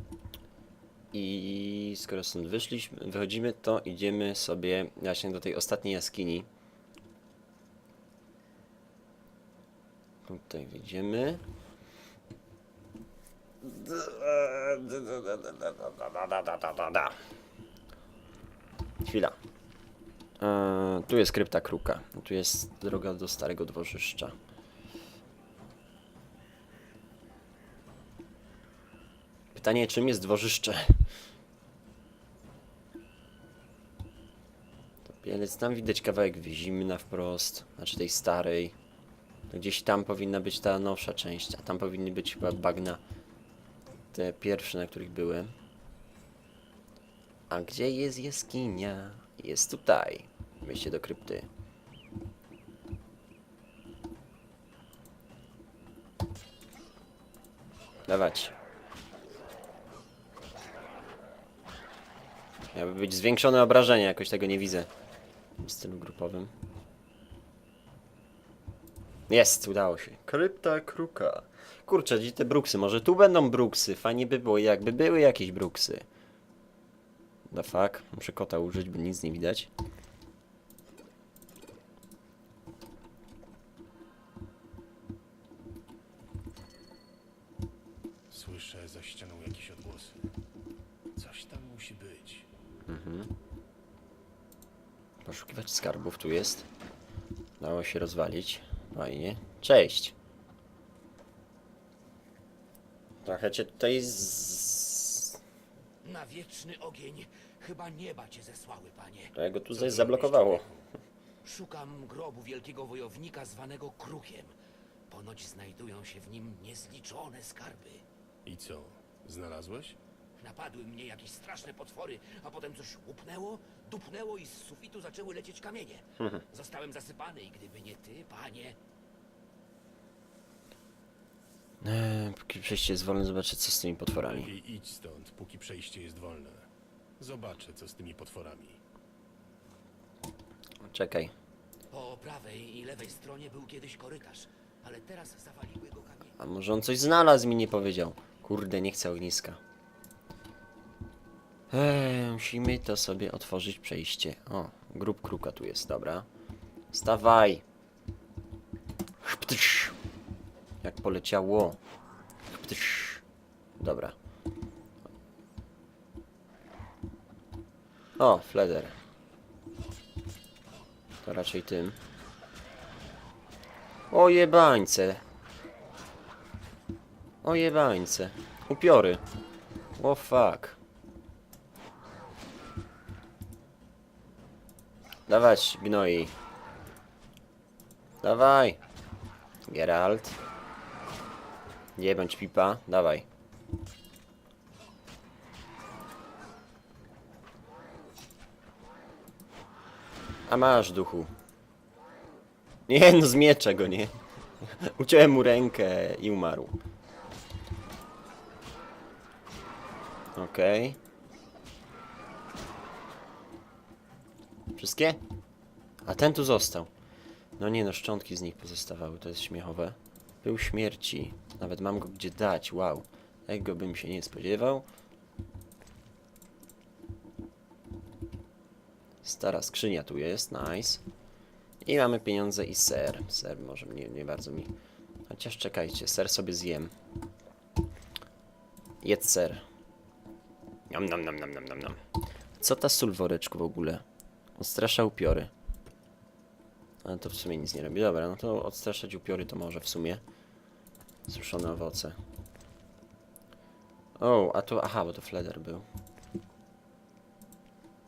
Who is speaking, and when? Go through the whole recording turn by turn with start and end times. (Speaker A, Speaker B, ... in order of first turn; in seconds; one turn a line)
Speaker A: 1.1-6.5
Speaker A: 10.2-11.4
Speaker A: 13.6-17.2
Speaker A: 19.0-19.4
Speaker A: 20.4-24.4
Speaker A: 29.5-31.1
Speaker A: 35.0-38.7
Speaker A: 39.5-43.0
Speaker A: 44.1-45.5
Speaker A: 47.5-51.5
Speaker A: 58.0-58.5
Speaker A: 62.7-64.9
Speaker A: 65.6-66.5
Speaker A: 69.3-76.0
Speaker A: 77.5-79.7
Speaker B: 88.3-90.3
Speaker B: 91.2-92.5
Speaker A: 92.9-93.3
Speaker A: 95.2-96.7
Speaker A: 97.6-100.1
Speaker A: 103.2-105.4
Speaker C: 106.0-109.3
Speaker A: 109.3-110.7
Speaker B: 109.7-110.8
Speaker C: 111.4-114.5
Speaker C: 115.1-118.0
Speaker B: 118.4-120.0
Speaker C: 120.4-128.8
Speaker A: 131.8-134.5
Speaker B: 134.4-136.7
Speaker B: 137.2-138.8
Speaker A: 140.8-141.3
Speaker C: 141.9-146.3
Speaker A: 146.4-149.6
Speaker A: 151.7-156.2
Speaker A: 156.9-157.6
Speaker A: 159.2-159.9
Speaker A: 160.8-161.8
Speaker A: 162.5-163.2
Speaker A: 163.8-164.1
Speaker A: 168.2-168.9
Speaker A: 171.2-172.0
Speaker A: 174.1-175.2
Speaker A: 177.4-179.2
Speaker A: 180.0-180.8
Speaker A: 185.3-186.3
Speaker A: 188.2-188.8
Speaker A: 189.7-190.4
Speaker A: 191.9-193.2
Speaker A: 200.5-201.3
Speaker A: 202.9-206.8
Speaker A: 210.3-211.0
Speaker A: 214.7-215.2
Speaker A: 216.0-216.9
Speaker A: 217.6-224.8
Speaker A: 229.2-231.0
Speaker A: 231.8-234.7
Speaker A: 235.3-236.9
Speaker A: 239.0-239.6
Speaker A: 240.9-242.0
Speaker A: 242.6-244.0
Speaker A: 244.6-245.5
Speaker A: 247.0-250.2
Speaker A: 251.3-252.2
Speaker A: 254.2-255.8